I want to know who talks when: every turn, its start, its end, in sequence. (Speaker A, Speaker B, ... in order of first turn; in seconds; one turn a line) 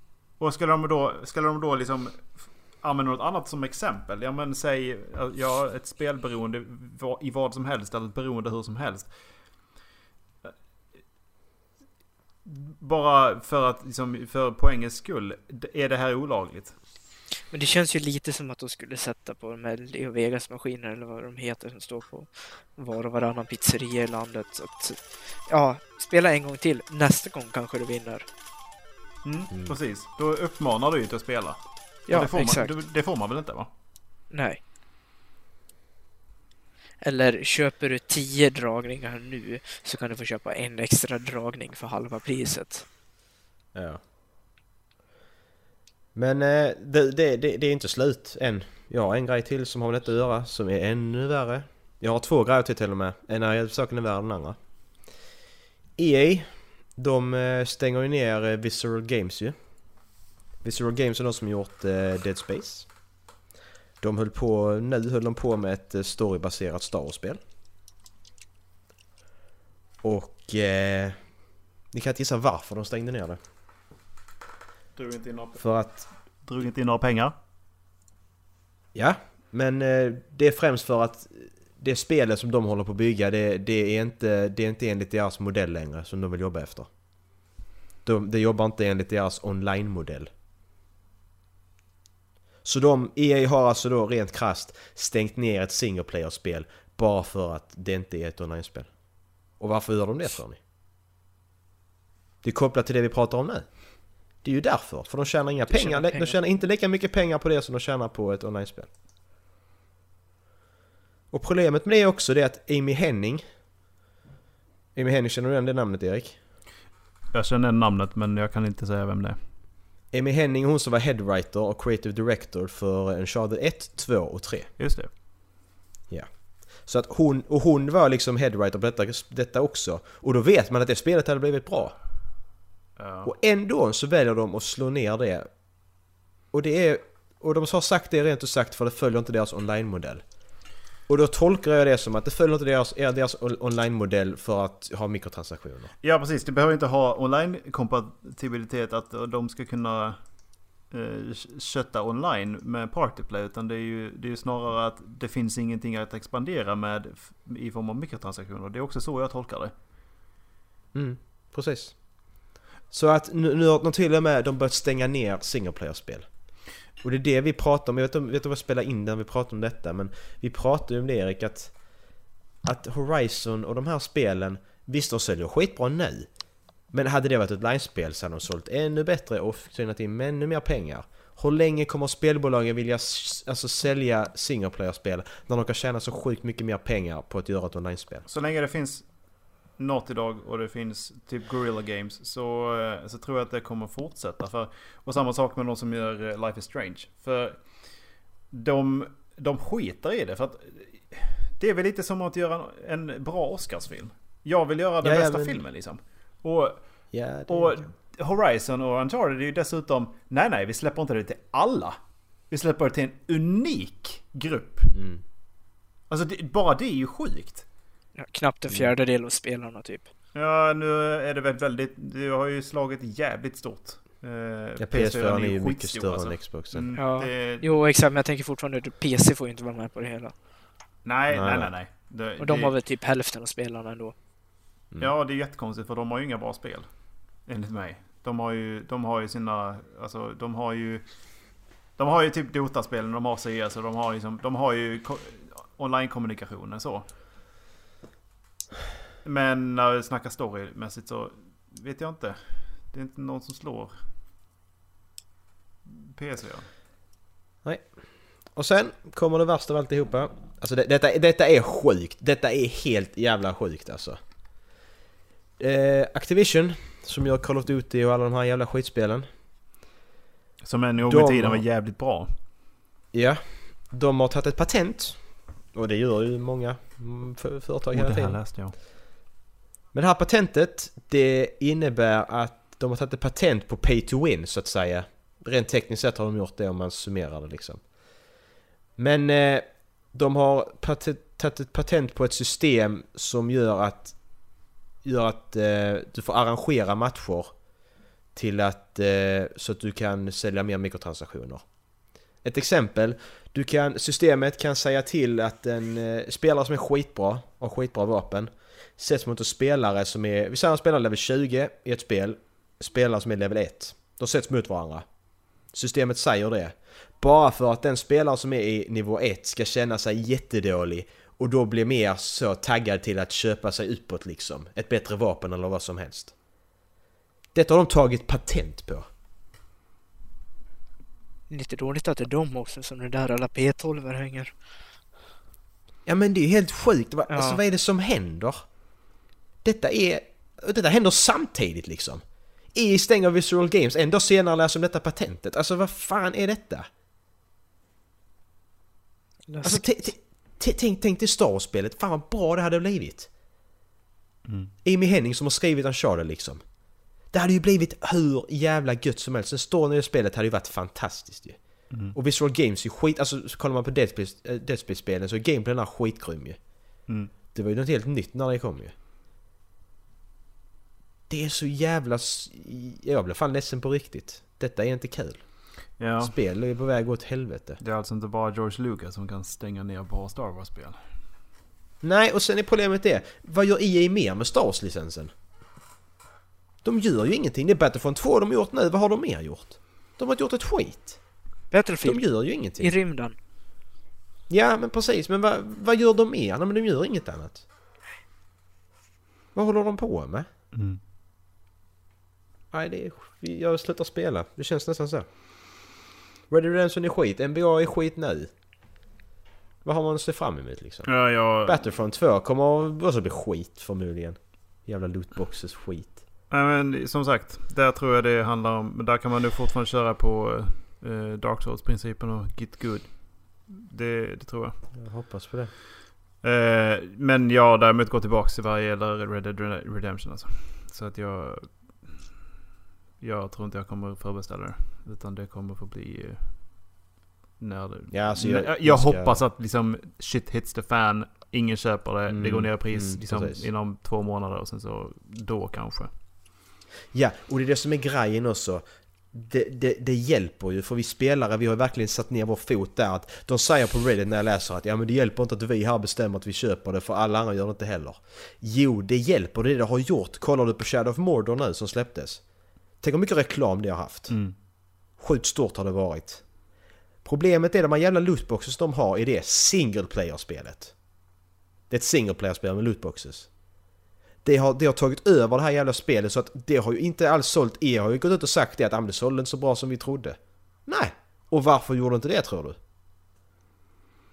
Speaker A: 0.4-9.2
Speaker A: 12.4-16.8
Speaker B: 17.5-28.3
Speaker A: 29.2-33.7
Speaker B: 32.1-32.8
Speaker B: 34.3-34.6
Speaker B: 37.0-42.9
Speaker C: 43.7-44.0
Speaker C: 46.1-54.6
Speaker C: 56.0-59.6
Speaker C: 60.6-62.9
Speaker C: 64.0-67.4
Speaker C: 70.0-73.4
Speaker A: 75.0-77.3
Speaker C: 75.6-76.1
Speaker C: 78.9-86.9
Speaker C: 88.0-90.3
Speaker C: 92.6-100.6
Speaker C: 102.4-108.9
Speaker B: 105.7-106.4
Speaker C: 111.3-113.5
Speaker C: 115.0-116.4
Speaker A: 117.3-119.4
Speaker C: 120.1-124.7
Speaker A: 124.8-125.1
Speaker C: 126.1-132.4
Speaker A: 133.0-133.3
Speaker C: 133.2-135.5
Speaker C: 136.5-145.9
Speaker A: 146.0-150.3
Speaker A: 150.8-159.7
Speaker C: 160.9-176.3
Speaker C: 176.9-188.3
Speaker A: 188.3-214.9
Speaker C: 205.0-205.6
Speaker C: 207.1-207.9
Speaker C: 214.9-215.2
Speaker A: 216.1-217.7
Speaker B: 218.2-220.1
Speaker A: 220.3-227.7
Speaker C: 224.8-226.9
Speaker B: 226.9-230.4
Speaker A: 231.0-232.8
Speaker C: 231.3-231.7
Speaker B: 232.4-234.2
Speaker A: 235.0-241.1
Speaker A: 242.0-247.1
Speaker A: 249.2-254.0
Speaker A: 256.1-256.7
Speaker C: 257.6-264.2
Speaker C: 265.6-269.3
Speaker A: 270.6-272.3
Speaker C: 271.0-271.6
Speaker C: 273.1-278.6
Speaker A: 277.9-278.8
Speaker C: 279.9-288.3
Speaker C: 289.0-297.6
Speaker C: 298.3-326.4
Speaker C: 327.5-329.1
Speaker B: 331.5-334.5
Speaker C: 336.1-346.9
Speaker B: 337.3-337.6
Speaker B: 349.5-350.1
Speaker C: 349.6-353.3
Speaker A: 354.5-354.7
Speaker C: 354.8-368.9
Speaker A: 361.9-362.1
Speaker C: 371.3-377.8
Speaker A: 376.0-376.3
Speaker A: 377.8-381.0
Speaker C: 382.0-385.3
Speaker C: 386.8-391.3
Speaker B: 391.7-393.4
Speaker C: 392.0-392.9
Speaker C: 394.5-397.7
Speaker C: 399.5-400.5
Speaker A: 400.7-401.0
Speaker C: 402.7-405.9
Speaker C: 406.5-408.5
Speaker C: 409.8-416.2
Speaker A: 411.1-411.8
Speaker A: 416.5-424.8
Speaker C: 425.0-425.7
Speaker A: 426.4-432.2
Speaker A: 433.2-437.0
Speaker A: 437.6-446.1
Speaker C: 438.1-439.4
Speaker C: 442.3-443.7
Speaker C: 447.1-466.7
Speaker A: 464.3-464.6
Speaker C: 467.2-471.2
Speaker C: 471.9-473.9
Speaker C: 474.4-482.8